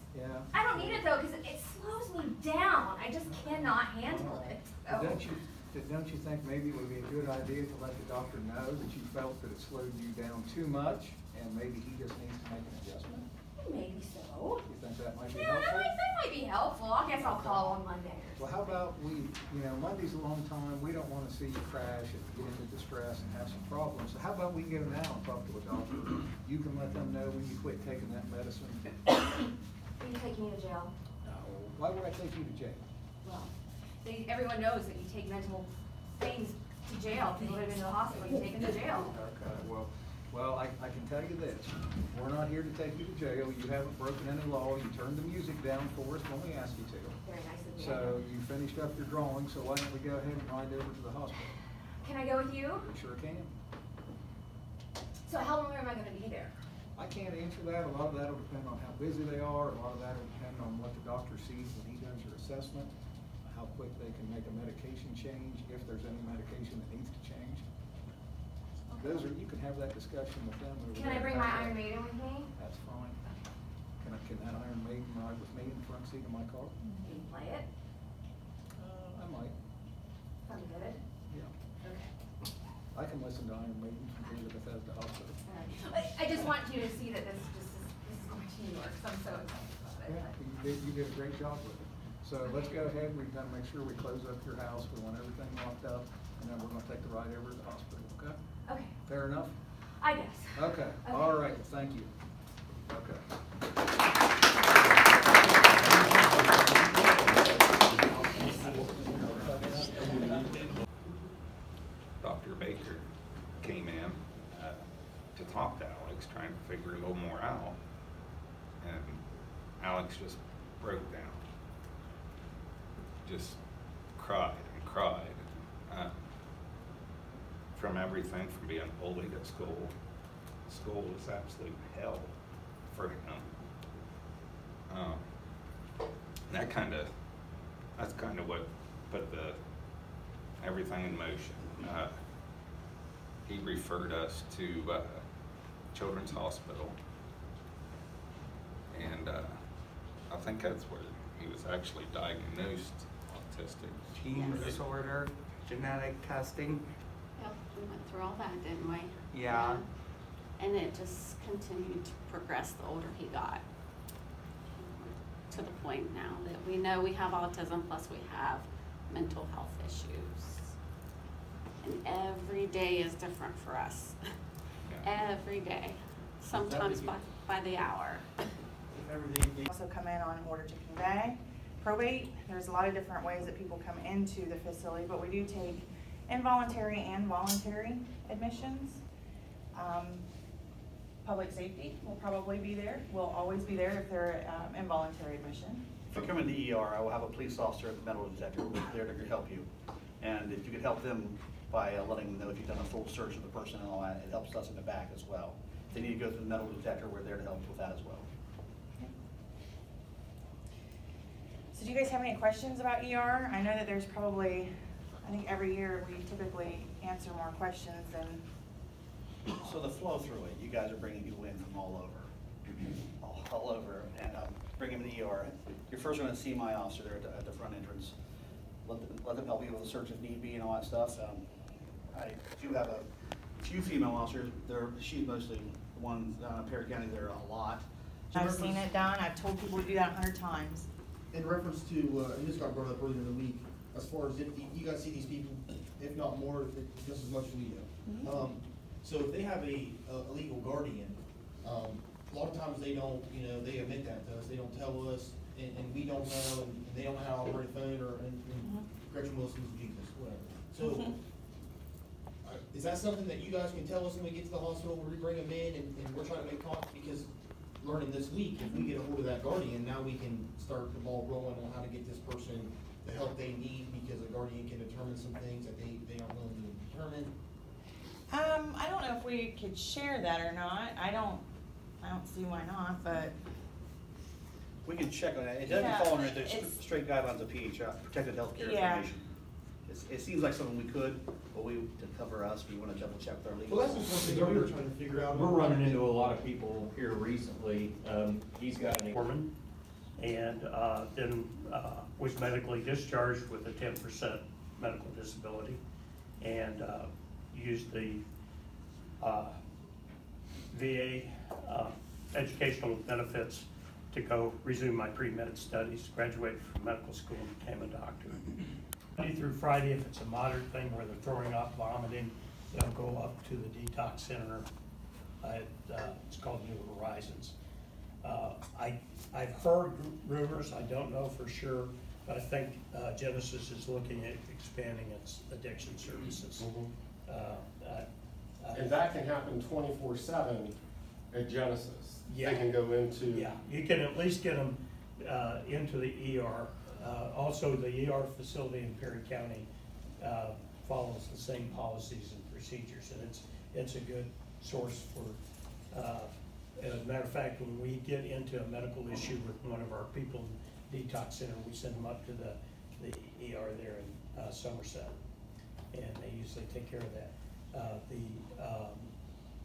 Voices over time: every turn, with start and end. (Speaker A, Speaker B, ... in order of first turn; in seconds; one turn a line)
Speaker A: 0.1-1.1
Speaker B: 0.5-5.2
Speaker A: 3.3-13.3
Speaker B: 13.6-14.7
Speaker A: 14.7-15.9
Speaker B: 15.3-18.8
Speaker A: 17.1-17.8
Speaker A: 18.4-28.9
Speaker B: 30.0-30.9
Speaker A: 31.2-32.8
Speaker B: 33.2-33.5
Speaker B: 34.0-39.1
Speaker A: 38.7-47.2
Speaker B: 47.2-48.2
Speaker A: 47.8-51.5
Speaker B: 52.0-52.9
Speaker A: 52.8-53.5
Speaker B: 55.3-56.5
Speaker A: 57.0-62.9
Speaker A: 63.4-67.6
Speaker B: 68.9-69.3
Speaker A: 69.0-71.8
Speaker B: 70.9-72.5
Speaker A: 72.5-73.2
Speaker A: 74.0-76.8
Speaker B: 76.8-77.7
Speaker A: 78.8-79.5
Speaker B: 80.4-81.0
Speaker B: 81.8-82.1
Speaker A: 82.9-85.4
Speaker B: 85.5-90.3
Speaker A: 90.1-98.4
Speaker B: 98.7-98.9
Speaker A: 99.0-99.5
Speaker B: 100.0-101.6
Speaker A: 100.6-102.1
Speaker A: 102.9-103.2
Speaker A: 105.8-107.4
Speaker A: 108.1-110.5
Speaker C: 112.2-113.0
Speaker C: 113.6-114.8
Speaker C: 115.3-117.8
Speaker C: 118.8-119.2
Speaker C: 119.8-121.4
Speaker C: 123.2-123.6
Speaker C: 124.2-126.1
Speaker C: 127.8-129.9
Speaker C: 130.7-132.3
Speaker C: 132.9-133.5
Speaker C: 134.9-135.2
Speaker C: 136.5-137.1
Speaker C: 138.0-139.6
Speaker C: 140.6-142.1
Speaker C: 143.4-145.2
Speaker C: 145.9-147.0
Speaker C: 148.9-149.6
Speaker C: 150.3-154.8
Speaker D: 154.1-156.8
Speaker E: 157.4-159.8
Speaker D: 159.3-159.8
Speaker E: 160.6-163.6
Speaker E: 164.7-170.7
Speaker E: 171.8-174.2
Speaker E: 175.0-178.2
Speaker F: 179.4-179.7
Speaker G: 179.7-189.0
Speaker G: 189.7-190.2
Speaker G: 191.2-195.8
Speaker F: 196.1-199.7
Speaker F: 200.2-208.3
Speaker G: 211.7-214.7
Speaker G: 215.2-218.4
Speaker F: 219.6-222.3
Speaker F: 223.2-228.1
Speaker F: 228.8-231.5
Speaker F: 232.1-233.1
Speaker F: 233.6-238.9
Speaker G: 238.3-240.9
Speaker H: 241.3-261.1
Speaker G: 248.1-248.4
Speaker G: 258.6-258.9
Speaker G: 260.8-261.1
Speaker H: 262.4-267.3
Speaker H: 267.8-277.3
Speaker G: 268.6-268.9
Speaker G: 278.3-281.4
Speaker G: 282.0-283.3
Speaker F: 284.8-289.2
Speaker G: 285.7-286.7
Speaker G: 288.6-289.1
Speaker F: 289.9-294.6
Speaker H: 293.7-296.0
Speaker I: 294.1-299.1
Speaker J: 299.0-299.5
Speaker J: 300.2-305.8
Speaker J: 306.4-308.2
Speaker J: 309.2-309.6
Speaker J: 310.7-318.6
Speaker J: 319.2-324.7
Speaker J: 325.4-327.5
Speaker J: 328.2-336.7
Speaker K: 336.6-336.9
Speaker J: 337.3-338.1
Speaker J: 338.6-339.0
Speaker K: 338.7-340.8
Speaker K: 341.3-343.5
Speaker J: 342.3-342.8
Speaker J: 343.3-349.7
Speaker J: 350.2-355.4
Speaker J: 355.9-365.2
Speaker J: 365.9-369.1